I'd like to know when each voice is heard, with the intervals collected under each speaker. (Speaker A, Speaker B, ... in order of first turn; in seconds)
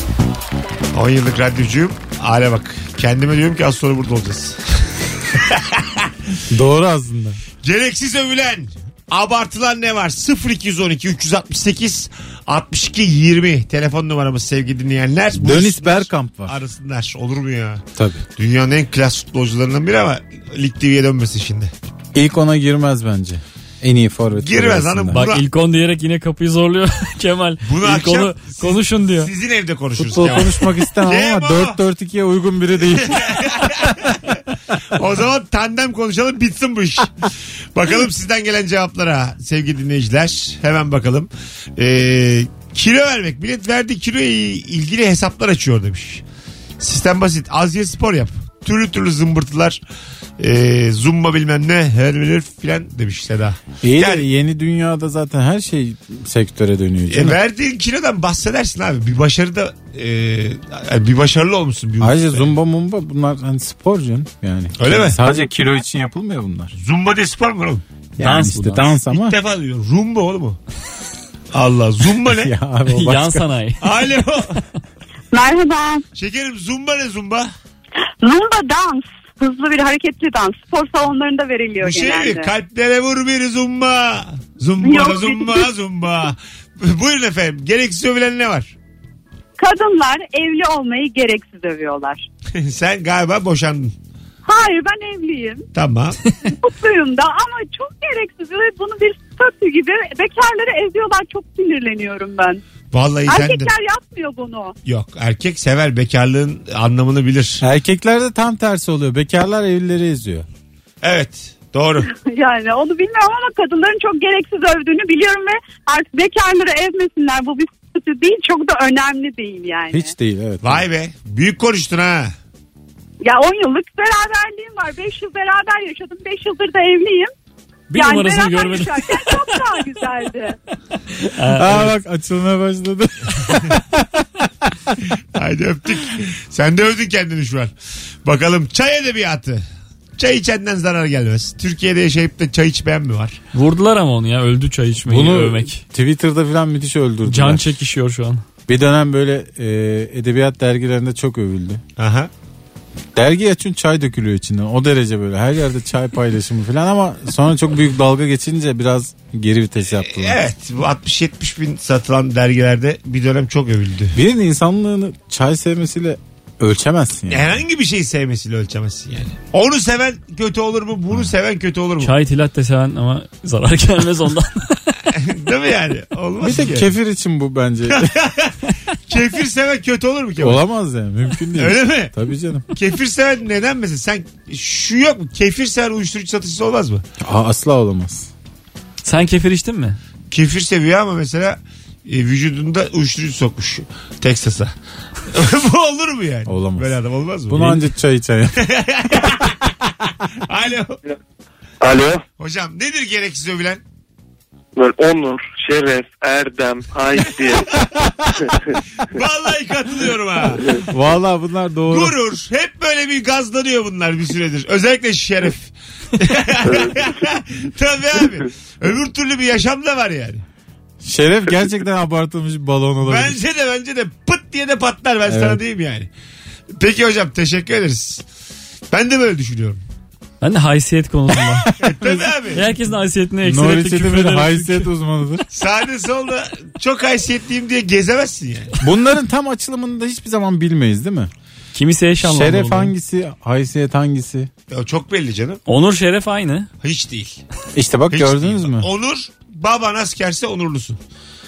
Speaker A: 0.9-4.6, 5.3-6.1, 7.6-17.8, 18.4-21.7, 24.4-25.4, 27.6-31.8, 33.0-34.4, 34.9-46.2, 46.8-49.8, 50.4-54.2, 57.1-62.5, 64.8-65.2, 66.8-67.8, 69.1-70.6, 71.5-72.5, 73.8-74.6, 76.1-77.5, 81.8-88.7, 92.5-93.9, 95.7-96.2, 102.9-103.7, 104.8-107.6, 111.0-112.1, 120.6-122.3, 135.3-137.7, 138.2-139.6, 140.2-143.4, 152.0-152.3, 160.0-164.2, 167.3-172.1, 175.1-176.9, 177.9-180.6, 181.6-182.1, 182.7-187.0, 190.3-194.7, 195.3-197.8, 198.6-199.7, 200.5-201.0, 202.4-203.8, 209.0-210.6, 211.9-220.4, 223.1-226.1, 226.8-228.2, 228.9-229.8, 231.8-232.7, 235.5-238.8, 244.7-245.6, 246.8-247.4, 248.1-251.0
Speaker B: 6.5-7.4, 15.3-16.6, 18.0-18.2, 22.1-25.2, 30.0-34.1, 53.8-57.4, 62.0-66.7, 68.2-69.4, 72.2-73.5, 107.6-110.5, 119.9-120.8, 131.5-134.9, 145.0-147.6, 148.7-151.8, 153.1-160.4, 164.1-167.6, 176.4-178.1, 180.4-182.7, 187.2-188.3, 196.5-196.9, 197.5-198.6, 210.8-212.1, 221.0-223.4, 225.2-225.6, 233.4-235.4, 238.8-241.3, 242.2-244.5, 247.8-248.9
Speaker C: 25.1-29.3, 68.2-68.9, 72.9-73.9, 127.9-129.9, 131.2-131.9, 143.5-145.8, 147.2-148.4, 172.0-174.9, 189.0-190.0, 230.4-231.8, 232.5-234.9, 241.7-242.9, 245.7-246.7
Speaker D: 75.3-76.0, 78.2-82.5, 84.8-85.7, 89.6-92.2, 94.5-95.7, 96.6-102.6, 103.2-104.7, 112.1-120.1, 123.2-127.3, 127.9-130.6
Speaker E: 201.8-202.1, 204.8-207.7